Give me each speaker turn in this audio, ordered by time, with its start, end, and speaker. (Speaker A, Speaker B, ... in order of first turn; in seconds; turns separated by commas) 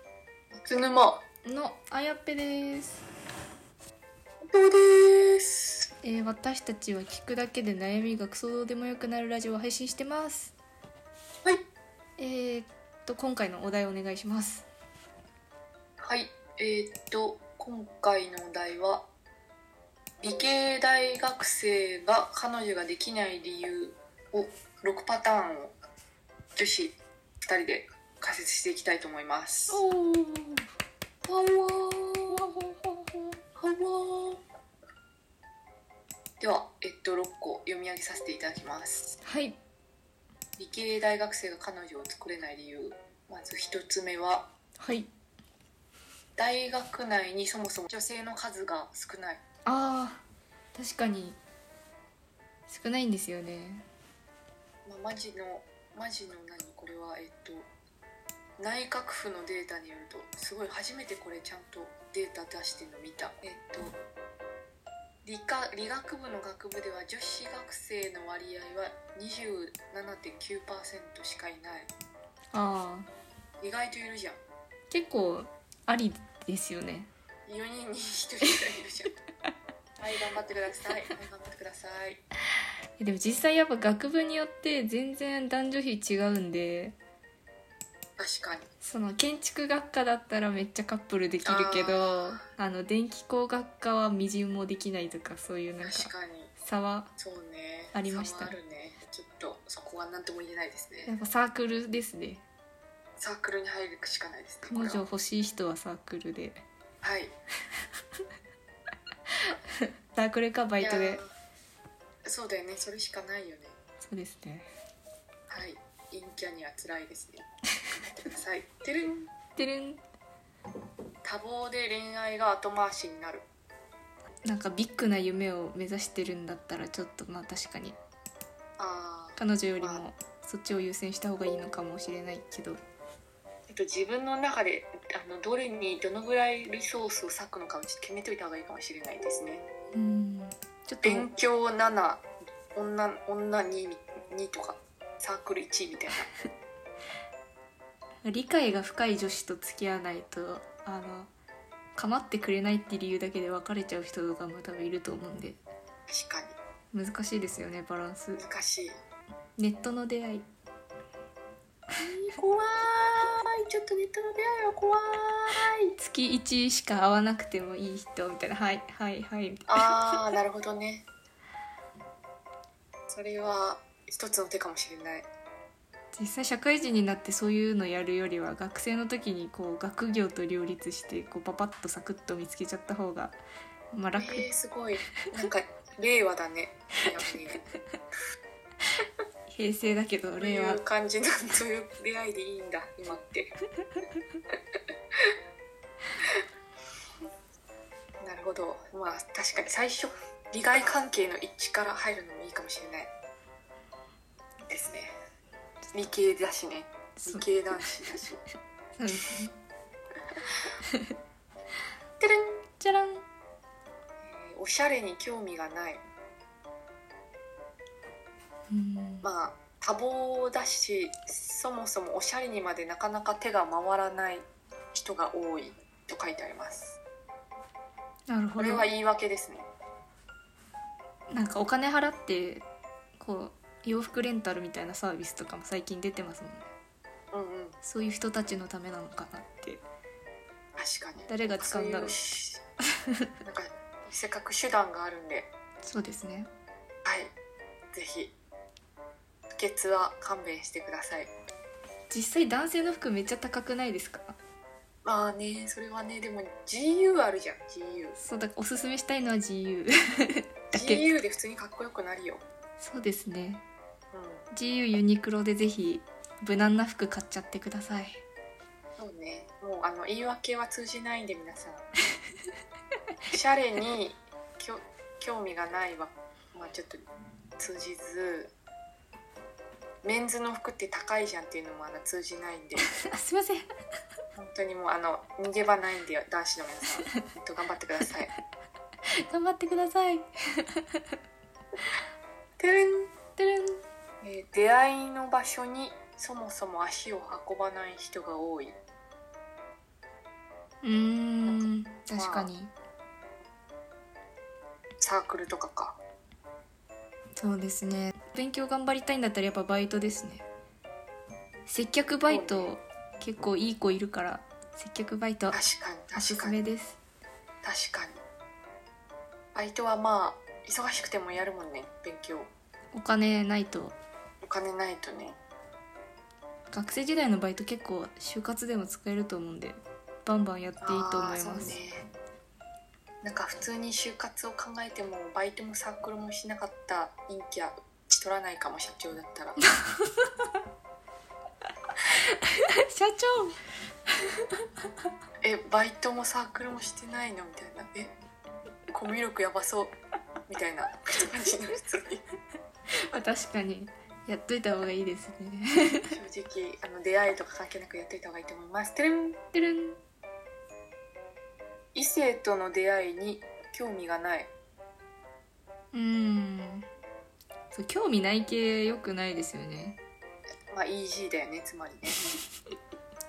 Speaker A: 0.6-1.2, Speaker B: 1.4-3.0, Speaker A: 4.5-5.9, Speaker B: 6.0-10.5, Speaker B: 12.2-14.6, Speaker A: 16.0-19.1, Speaker A: 20.2-25.7, Speaker A: 26.6-29.8, Speaker B: 29.7-30.6, Speaker A: 31.2-32.5, Speaker B: 32.3-33.3, Speaker A: 33.5-34.4, Speaker A: 36.4-39.1, Speaker B: 39.2-39.6, Speaker A: 40.6-44.5, Speaker B: 44.8-45.1, Speaker A: 46.4-49.4, Speaker B: 49.6-51.4, Speaker B: 52.7-53.9, Speaker A: 54.9-57.7, Speaker A: 58.6-64.0, Speaker A: 65.2-71.9, Speaker B: 72.5-73.1, Speaker A: 73.6-74.4, Speaker B: 74.9-77.1, Speaker A: 77.5-79.1, Speaker A: 80.0-82.2, Speaker B: 83.0-87.0, Speaker A: 88.2-88.7, Speaker B: 88.8-97.1, Speaker A: 91.4-92.4, Speaker A: 95.8-96.5, Speaker A: 97.2-101.1, Speaker B: 97.9-98.5, Speaker B: 101.0-102.4, Speaker A: 103.2-105.0, Speaker B: 104.6-106.6, Speaker A: 107.0-107.3, Speaker B: 109.5-111.2, Speaker A: 110.8-111.3, Speaker A: 112.2-113.7, Speaker B: 114.0-114.7, Speaker A: 115.5-117.5, Speaker A: 118.0-119.3, Speaker B: 119.5-120.0, Speaker A: 121.2-123.5, Speaker B: 124.4-128.0, Speaker A: 128.8-130.0, Speaker B: 129.4-132.8, Speaker A: 133.7-139.7, Speaker B: 139.9-141.3, Speaker A: 141.0-146.3, Speaker B: 148.2-151.3, Speaker B: 151.9-155.6, Speaker A: 156.1-156.6, Speaker B: 156.9-158.4, Speaker A: 158.3-159.0, Speaker B: 159.6-160.4, Speaker A: 162.0-165.9, Speaker B: 165.9-170.2, Speaker A: 169.7-171.1, Speaker A: 173.1-175.3, Speaker B: 176.1-183.4, Speaker B: 183.9-184.5, Speaker A: 184.2-187.6, Speaker B: 189.5-190.8, Speaker A: 190.4-193.6, Speaker A: 198.2-203.1, Speaker A: 204.7-205.1, Speaker A: 205.9-208.4, Speaker B: 207.2-207.5, Speaker B: 209.0-209.5, Speaker B: 210.9-211.1, Speaker A: 212.2-212.6, Speaker B: 212.8-213.2, Speaker A: 214.2-216.0, Speaker B: 218.7-219.3, Speaker A: 219.2-227.0, Speaker B: 228.3-228.9, Speaker A: 228.6-229.7, Speaker B: 231.3-232.6, Speaker B: 233.2-236.7, Speaker A: 237.3-237.8, Speaker B: 237.8-239.8, Speaker A: 240.8-242.6, Speaker B: 241.3-242.2, Speaker A: 243.4-245.5, Speaker B: 245.8-246.5, Speaker A: 247.0-247.3, Speaker A: 247.9-248.3, Speaker A: 249.5-251.3, Speaker B: 252.1-254.3, Speaker A: 255.0-258.1, Speaker B: 258.1-261.0, Speaker A: 260.7-262.4, Speaker B: 262.8-263.6, Speaker A: 264.1-264.5, Speaker B: 264.5-268.2, Speaker A: 269.0-271.9, Speaker A: 273.3-277.0, Speaker A: 277.6-278.5, Speaker A: 280.0-282.9, Speaker B: 282.9-283.7, Speaker A: 284.4-288.3, Speaker B: 289.1-291.0, Speaker A: 292.6-293.1, Speaker B: 293.4-293.8, Speaker A: 294.2-298.8, Speaker B: 300.8-302.7, Speaker A: 301.4-302.5, Speaker A: 305.0-306.0, Speaker B: 307.4-310.4, Speaker B: 311.7-315.6, Speaker A: 312.3-312.7, Speaker A: 315.5-316.6, Speaker B: 316.1-317.0, Speaker A: 317.6-318.2, Speaker A: 319.5-322.5, Speaker B: 322.9-324.0, Speaker A: 324.4-325.4, Speaker B: 326.7-331.8, Speaker A: 330.8-332.1, Speaker A: 333.2-339.6, Speaker B: 339.8-340.4, Speaker B: 342.3-343.6, Speaker B: 344.2-344.6, Speaker A: 345.4-348.1, Speaker A: 348.9-349.9, Speaker A: 350.5-352.2, Speaker B: 353.1-356.1, Speaker A: 356.1-359.4, Speaker B: 359.5-360.0, Speaker A: 361.9-364.5, Speaker B: 365.9-366.9, Speaker B: 367.7-370.0, Speaker A: 370.7-372.2